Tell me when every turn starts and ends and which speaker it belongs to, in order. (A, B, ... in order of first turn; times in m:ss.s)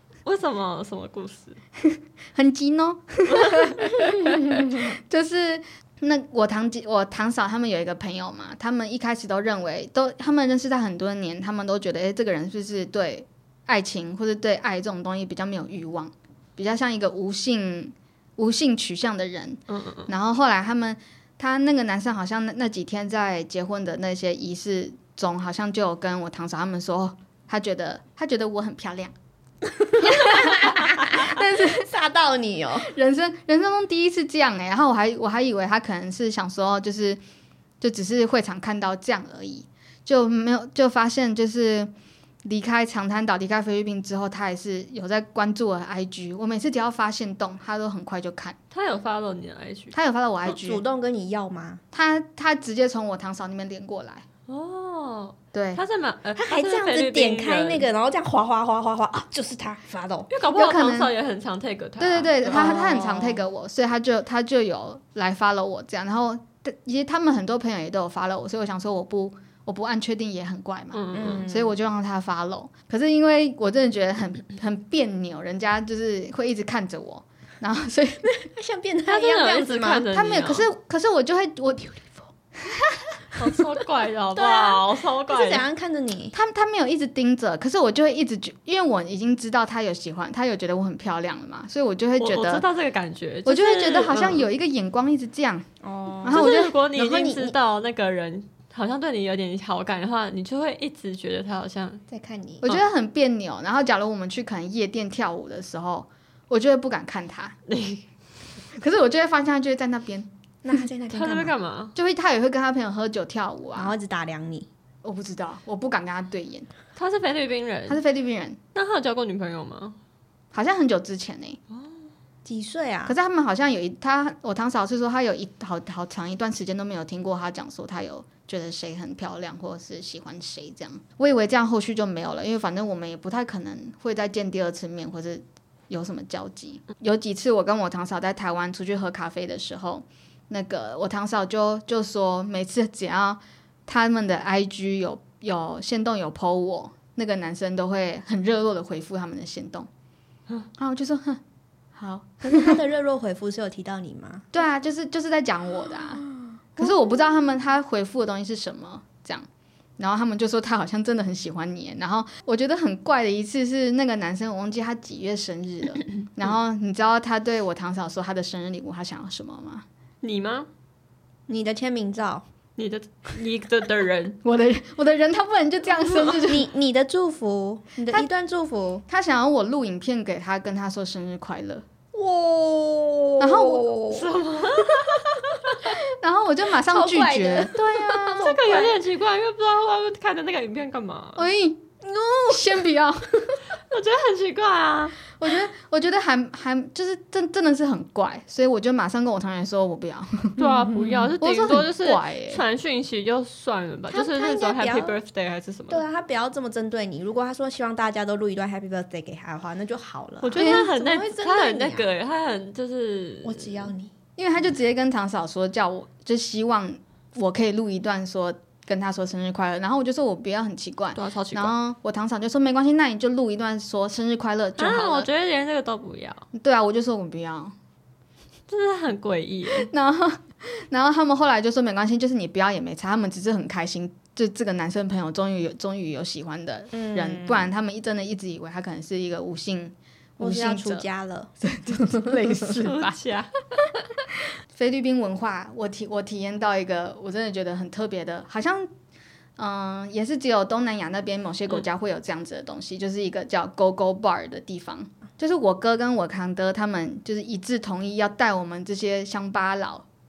0:00.2-0:01.6 A
0:01.8-0:29.1 B
0:03.3-0:03.9 A
0:19.7-0:20.1 A
0:29.8-0:32.9 C
0:30.0-0:31.9 B
0:32.8-0:37.2 B
0:37.8-0:41.9 B
0:42.4-0:48.6 B
0:48.7-0:49.9 A
0:49.9-0:50.8 B
0:50.4-0:51.8 C
0:51.9-0:54.2 B
0:54.5-0:57.9 A
0:55.5-0:55.8 B
0:56.4-1:00.3 C
1:00.3-1:03.0 A
1:00.5-1:01.1 B
1:02.0-1:18.2 B
1:02.5-1:03.3 C
1:10.9-1:11.4 A
1:11.1-1:11.7 C
1:18.2-1:20.0 C
1:19.1-1:20.7 A
1:20.1-1:22.8 B
1:23.4-1:25.7 A
1:24.3-1:26.4 C
1:26.3-1:32.6 B
1:32.2-1:34.4 A
1:33.4-1:35.6 B
1:35.8-1:37.5 C
1:36.2-1:36.8 B
1:36.3-1:42.0 A
1:42.1-1:42.6 C
1:42.6-1:47.6 B
1:47.7-1:48.0 A
1:48.8-1:50.3 B
1:50.6-1:51.5 C
1:51.1-1:51.9 A
1:51.9-1:53.9 B
1:53.7-1:54.7 C
1:55.0-1:56.7 B
1:57.0-1:58.0 A
1:57.9-1:58.6 B
1:58.7-2:00.0 A
2:00.5-2:01.6 B
2:02.4-2:03.2 C
2:03.0-2:29.9 B
2:30.8-2:31.4 B
2:31.9-2:32.8 B
2:32.4-2:34.4 C
2:34.5-2:36.2 B
2:36.8-2:39.4 B
2:40.0-2:49.8 B
2:50.2-2:50.7 A
2:51.5-2:52.4 C
2:52.8-2:54.4 A
2:54.4-2:56.7 B
2:56.5-2:59.0 C
2:59.1-3:01.8 B
3:02.1-3:04.3 C
3:03.4-3:03.9 B
3:04.1-3:05.7 A
3:06.1-3:08.9 B
3:06.8-3:08.9 C
3:08.3-3:11.5 A
3:11.4-3:13.6 B
3:12.2-3:12.6 C
3:13.9-3:15.2 A
3:15.3-3:20.6 B
3:20.6-3:26.0 A
3:20.6-3:21.3 C
3:21.4-3:22.6 B
3:24.1-3:25.2 C
3:25.9-3:32.1 C
3:30.4-3:33.9 A
3:30.6-3:30.9 B
3:33.4-3:34.1 C
3:34.4-3:45.3 B
3:41.1-3:41.7 A
3:44.8-3:46.4 A
3:46.5-3:47.7 B
3:48.7-3:49.9 A
3:49.7-4:01.0 B
3:56.9-3:57.7 C
4:00.4-4:01.5 C
4:01.6-4:03.2 B
4:02.8-4:03.5 A
4:04.7-4:08.9 B
4:09.6-4:20.0 B